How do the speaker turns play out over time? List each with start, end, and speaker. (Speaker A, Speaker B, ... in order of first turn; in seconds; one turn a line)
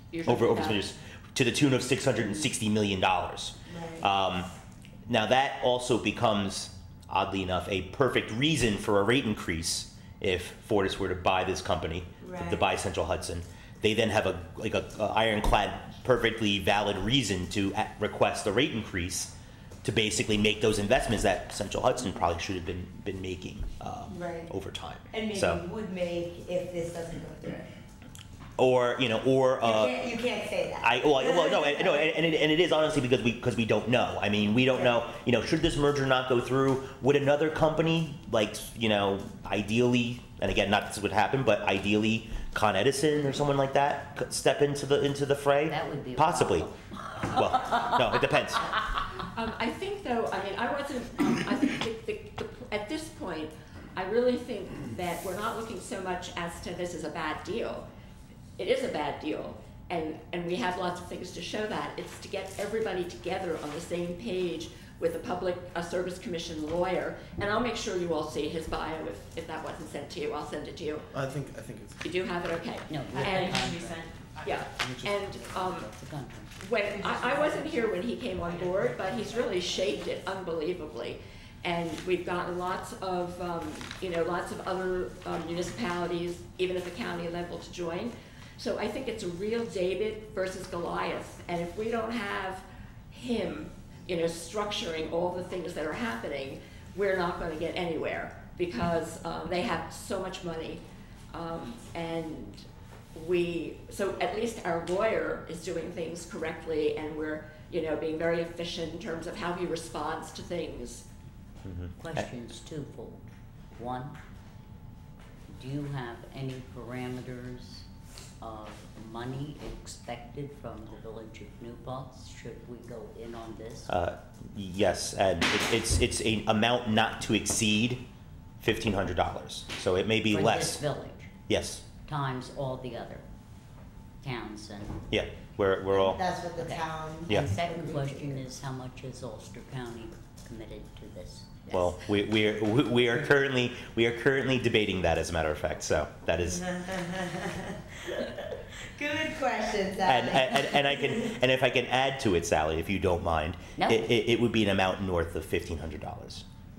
Speaker A: 0.1-0.8
Speaker B: 0.2-4.5
Speaker C: 3.7-4.1
Speaker B: 5.1-19.3
Speaker C: 12.2-12.7
Speaker B: 19.8-25.6
Speaker C: 24.1-24.5
Speaker C: 25.1-27.7
Speaker B: 28.6-29.9
Speaker C: 29.6-32.2
Speaker B: 30.8-46.7
Speaker D: 45.7-47.1
Speaker B: 47.2-48.7
Speaker A: 49.2-57.9
Speaker A: 58.6-71.1
Speaker E: 71.1-71.9
Speaker A: 72.0-73.8
Speaker D: 72.9-74.1
Speaker E: 73.2-74.9
Speaker A: 74.4-75.9
Speaker D: 75.3-76.5
Speaker A: 76.6-102.6
Speaker A: 103.1-111.0
Speaker B: 111.6-112.2
Speaker D: 112.0-114.2
Speaker D: 115.5-117.8
Speaker D: 118.4-123.9
Speaker B: 123.9-128.0
Speaker B: 128.6-130.8
Speaker D: 130.3-131.3
Speaker B: 131.5-131.8
Speaker D: 132.0-133.2
Speaker D: 134.2-135.0
Speaker B: 135.1-136.2
Speaker C: 135.9-138.4
Speaker D: 136.6-141.6
Speaker B: 137.3-137.5
Speaker B: 141.7-146.8
Speaker C: 146.6-151.3
Speaker B: 150.0-156.4
Speaker D: 153.8-154.1